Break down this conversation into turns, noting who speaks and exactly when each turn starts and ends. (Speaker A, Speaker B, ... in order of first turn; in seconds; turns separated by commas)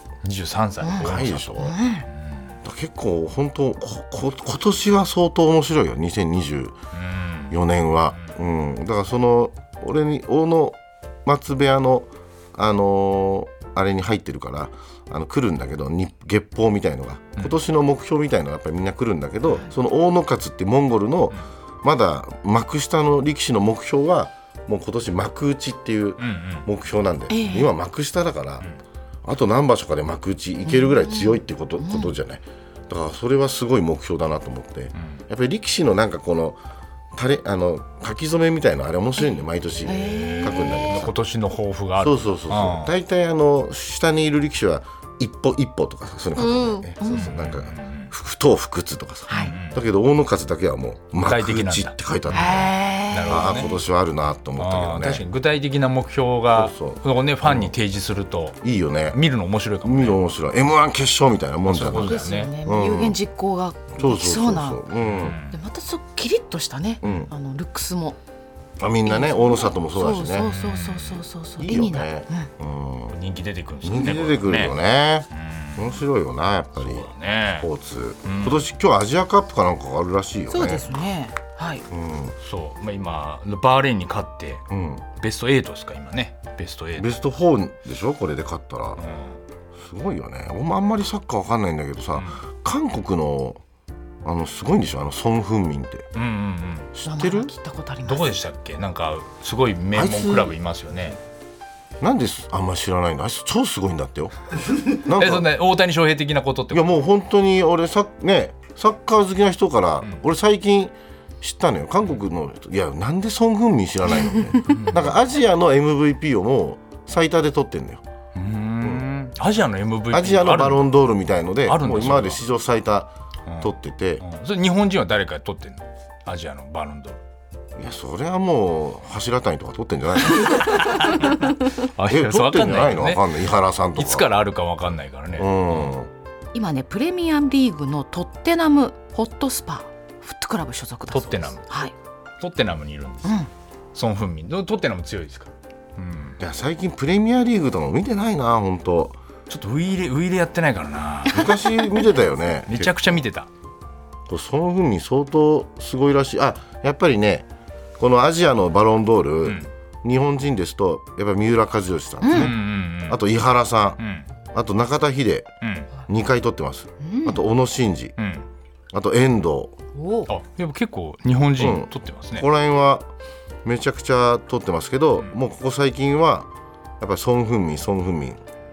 Speaker A: 0.2-1.5, Speaker B: 0.8-2.1, Speaker C: 1.0-1.8, Speaker A: 2.1-2.5, Speaker C: 2.6-6.8, Speaker A: 6.9-7.6, Speaker C: 7.5-28.7, Speaker A: 26.2-26.7, Speaker B: 27.3-27.7, Speaker C: 29.2-36.6, Speaker B: 30.6-32.1, Speaker A: 35.0-35.2, Speaker C: 37.1-41.1, Speaker B: 39.8-41.0, Speaker A: 39.9-42.9, Speaker C: 42.0-55.2, Speaker B: 46.4-47.3, Speaker A: 47.0-48.1, Speaker B: 49.3-49.5, Speaker A: 49.3-49.8, Speaker A: 51.2-53.7, Speaker B: 52.3-53.6, Speaker A: 54.6-58.6, Speaker C: 56.5-57.8, Speaker C: 58.6-59.2, Speaker A: 59.1-60.2, Speaker C: 59.8-63.2, Speaker A: 61.7-62.5, Speaker B: 61.9-64.8, Speaker C: 63.9-65.4, Speaker A: 65.0-65.6, Speaker B: 65.5-68.2, Speaker C: 67.0-67.3, Speaker C: 68.8-70.5, Speaker B: 69.0-72.5, Speaker A: 70.4-71.2, Speaker C: 71.6-73.2, Speaker A: 73.1-74.7, Speaker C: 73.8-81.0, Speaker A: 75.3-76.0, Speaker A: 76.8-77.7, Speaker A: 78.2-78.7, Speaker B: 80.5-81.8, Speaker C: 81.9-82.3, Speaker A: 82.4-84.6, Speaker C: 84.7-85.0, Speaker A: 85.2-87.1, Speaker C: 87.0-89.0, Speaker A: 89.0-89.4, Speaker C: 89.8-93.6, Speaker C: 94.2-96.1, Speaker A: 96.1-96.9, Speaker C: 96.9-97.5, Speaker B: 97.0-98.4, Speaker A: 98.0-101.2, Speaker C: 99.9-100.5, Speaker C: 102.0-104.3, Speaker C: 104.8-105.5, Speaker A: 105.1-106.9, Speaker C: 106.7-118.0, Speaker A: 114.7-115.2, Speaker A: 118.3-120.9, Speaker C: 120.1-124.2, Speaker A: 121.7-122.4, Speaker A: 123.5-127.2, Speaker C: 127.8-131.1, Speaker A: 130.6-131.3, Speaker A: 131.9-133.3, Speaker C: 132.1-134.3, Speaker A: 134.0-135.9, Speaker C: 135.4-136.1, Speaker B: 136.5-141.9, Speaker A: 141.1-141.6, Speaker A: 142.4-146.4, Speaker C: 146.4-149.2, Speaker A: 149.5-151.6, Speaker C: 151.3-153.2, Speaker A: 152.7-153.5, Speaker C: 154.3-157.5, Speaker C: 158.0-164.0, Speaker A: 159.4-159.7, Speaker B: 162.2-162.5, Speaker A: 162.3-163.2, Speaker A: 164.0-164.2, Speaker C: 164.5-165.5, Speaker A: 165.6-165.9, Speaker C: 166.1-168.1, Speaker B: 167.0-167.4, Speaker A: 168.2-168.4, Speaker C: 168.9-169.8, Speaker B: 169.9-170.3, Speaker A: 170.3-172.5, Speaker C: 171.6-173.1, Speaker C: 173.6-178.4